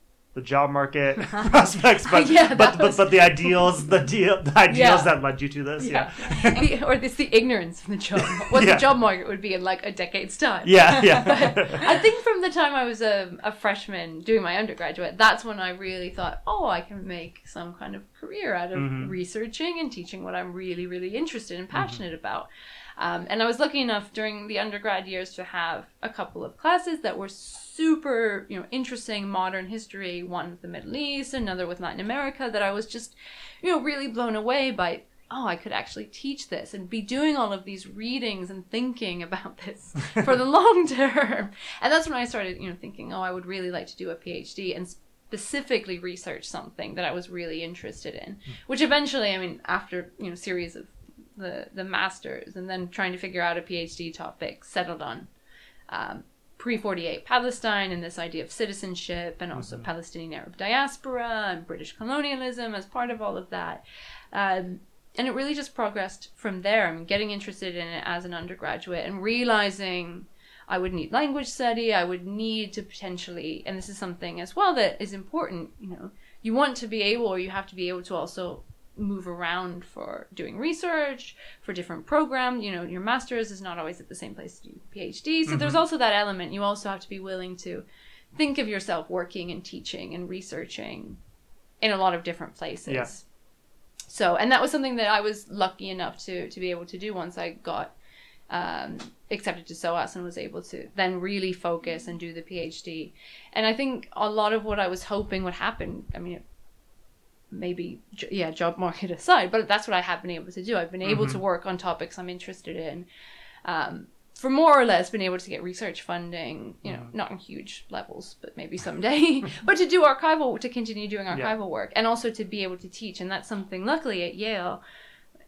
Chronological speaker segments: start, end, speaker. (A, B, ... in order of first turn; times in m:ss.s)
0:00.3-0:06.7 A
0:02.0-0:03.6 B
0:04.7-0:05.2 B
0:05.8-0:55.3 B
0:08.2-0:08.9 A
0:10.6-0:12.0 A
0:18.8-0:19.2 A
0:21.7-0:22.0 A
0:55.9-1:31.2 B
0:59.5-0:59.9 A
1:25.5-1:25.8 A
1:31.8-1:33.2 B
1:34.1-1:37.9 B
1:38.5-1:46.4 B
1:47.5-1:53.1 B
1:51.0-1:51.4 A
1:53.6-2:04.8 B
1:56.8-1:57.1 A